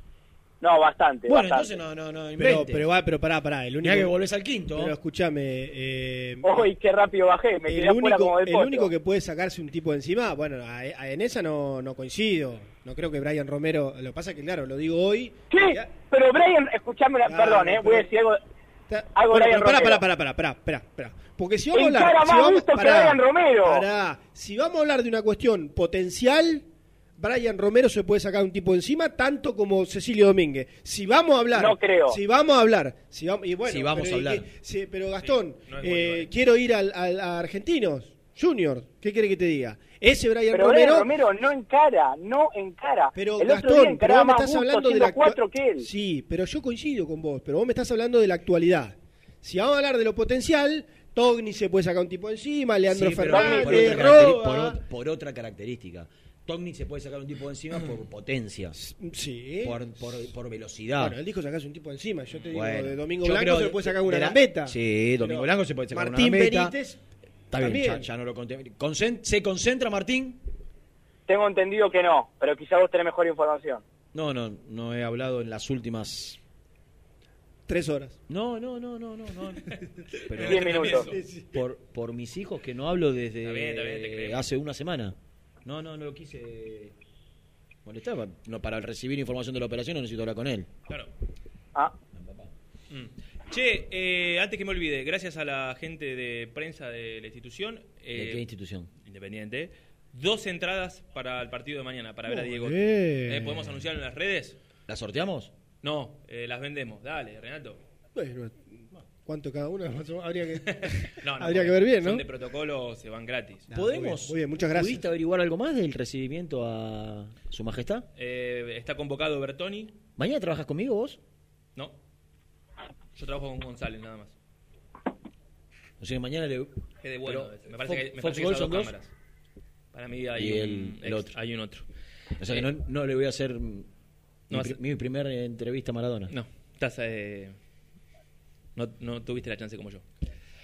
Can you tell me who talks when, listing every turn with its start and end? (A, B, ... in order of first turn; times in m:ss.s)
0:00.6-0:01.7 A
0:01.2-0:02.8 B
0:02.4-0:04.1 C
0:03.8-0:04.9 B
0:04.7-0:06.7 C
0:06.4-0:08.9 A
0:07.7-0:16.0 C
0:15.5-0:18.4 A
0:17.3-0:18.1 C
0:18.9-0:26.6 C
0:19.1-0:20.0 A
0:21.7-0:23.8 A
0:27.2-0:41.1 C
0:31.6-0:32.2 A
0:33.6-0:34.4 B
0:35.2-0:36.3 D
0:40.5-0:45.9 A
0:43.1-0:54.8 C
0:52.9-0:58.7 B
0:53.4-0:53.7 A
0:58.7-0:59.9 C
0:59.6-1:01.2 B
1:01.0-1:07.0 C
1:02.5-1:06.7 B
1:07.5-1:10.4 B
1:07.6-1:08.1 C
1:11.3-1:13.8 A
1:14.1-1:16.4 B
1:17.7-1:18.2 C
1:18.3-1:19.6 B
1:20.3-1:26.9 B
1:20.3-1:21.2 D
1:20.5-1:21.0 A
1:21.1-1:21.5 C
1:23.4-1:24.4 D
1:27.8-1:30.7 B
1:32.1-1:32.5 B
1:32.9-1:38.4 D
1:38.1-1:38.9 B
1:39.0-1:44.6 D
1:42.3-1:43.8 C
1:44.9-1:45.5 B
1:45.8-1:47.8 D
1:48.1-1:52.2 C
1:50.7-1:53.6 D
1:53.7-1:55.0 C
1:53.7-1:58.1 B
1:58.2-1:59.9 D
2:00.2-2:01.2 B
2:03.2-2:04.3 D
2:06.0-2:08.9 B
2:07.0-2:09.1 D
2:09.9-2:11.8 D
2:10.4-2:11.3 B
2:12.4-2:13.9 B
2:14.5-2:14.8 D
2:14.5-2:16.3 B
2:16.3-2:17.6 D
2:18.8-2:20.0 D